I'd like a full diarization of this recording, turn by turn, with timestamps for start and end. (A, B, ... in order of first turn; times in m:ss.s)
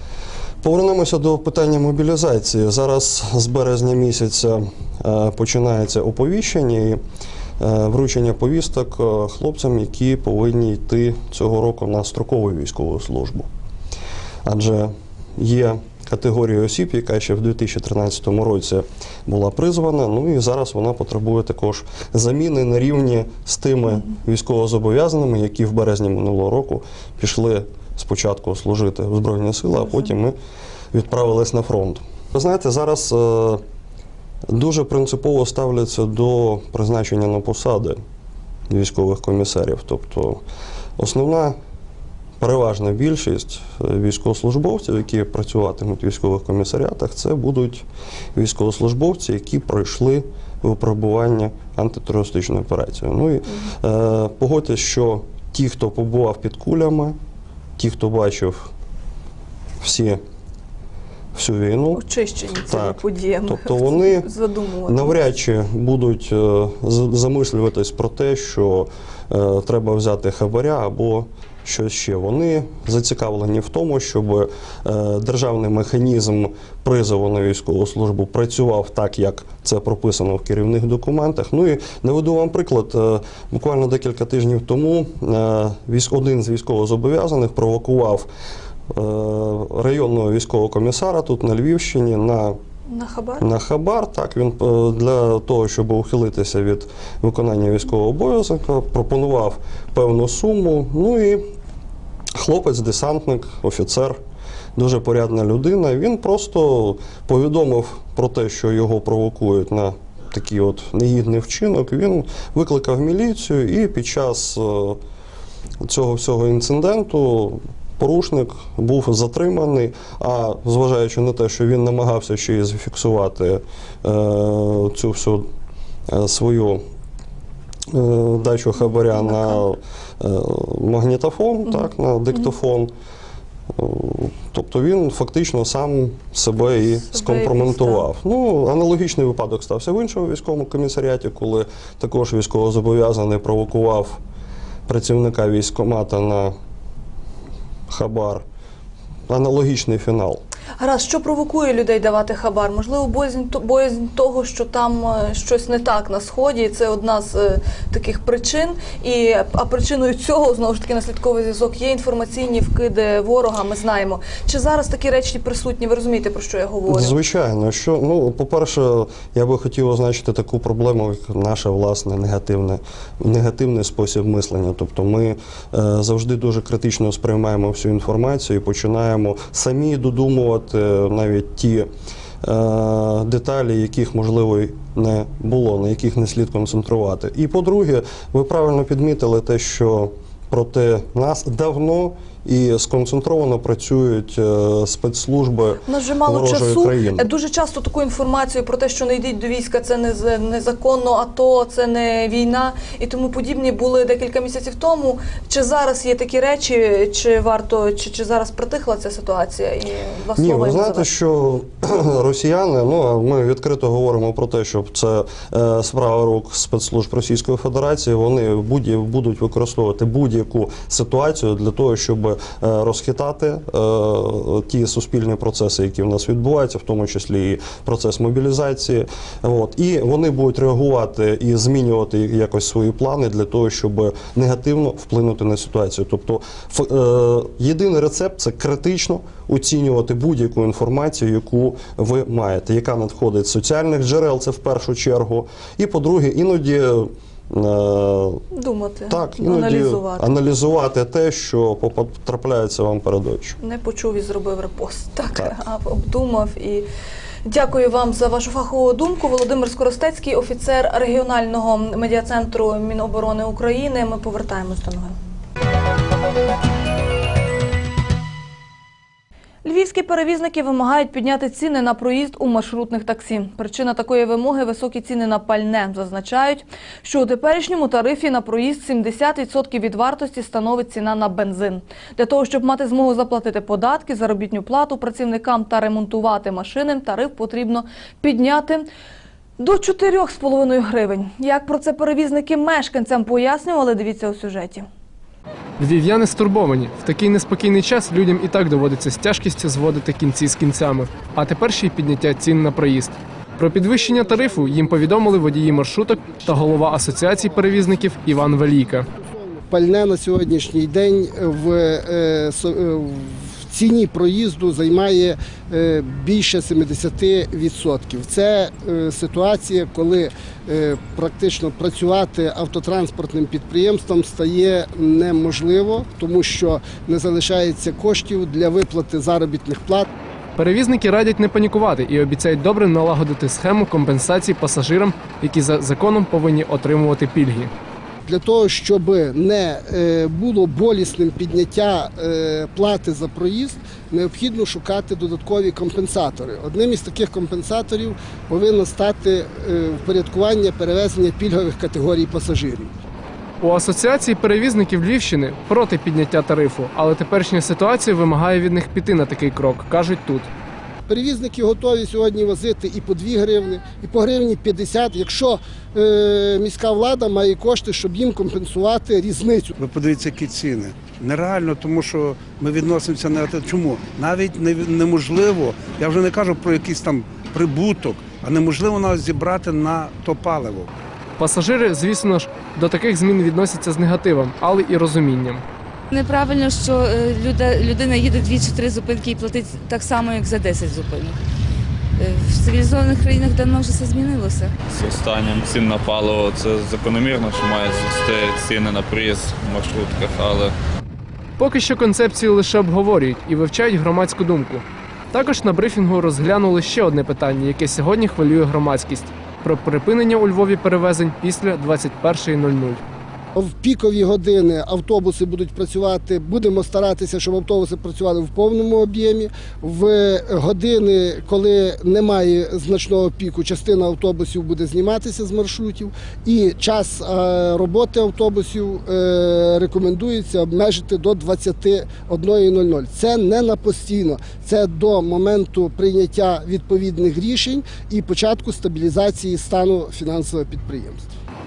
0:00.6-0:07.0 A
0:07.6-0:13.5 A
0:14.5-0:30.4 A
0:30.9-0:33.6 A
0:34.5-0:38.0 A
0:38.7-0:40.4 A
0:41.0-0:41.6 A
0:42.4-0:57.2 A
0:57.8-0:58.7 A
0:59.8-1:00.2 A
1:01.4-1:02.0 A
1:01.9-1:05.2 B
1:02.6-1:04.3 A
1:04.9-1:28.3 A
1:28.9-1:32.6 A
1:32.9-1:33.5 B
1:33.4-1:41.4 A
1:42.4-1:44.2 A
1:44.8-1:55.0 A
1:55.8-2:05.5 A
2:06.1-2:06.8 A
2:07.9-2:12.9 A
2:13.8-2:24.2 A
2:17.1-2:18.1 B
2:24.9-2:26.5 A
2:27.9-2:28.4 A
2:29.3-2:30.4 A
2:30.8-2:47.2 B
2:46.9-3:01.9 A
3:02.4-3:17.3 A
3:15.8-3:31.1 B
3:30.4-4:08.4 A
4:08.6-4:10.3 B
4:09.1-4:13.6 A
4:13.6-4:16.9 B
4:17.5-4:25.2 B
4:29.6-4:48.9 B
4:49.6-4:54.9 B
4:55.8-5:09.1 C
5:04.2-5:04.9 D
5:06.2-5:07.8 D
5:09.2-5:30.1 D
5:30.6-5:37.7 C
5:38.3-5:52.9 D
5:53.6-6:00.5 C
6:01.1-6:09.7 D
6:09.8-6:20.9 E
6:21.4-6:25.6 C
6:26.2-6:31.3 F
6:32.2-6:34.7 F
6:35.0-6:40.7 G
6:41.6-6:53.0 C
6:53.6-7:21.3 D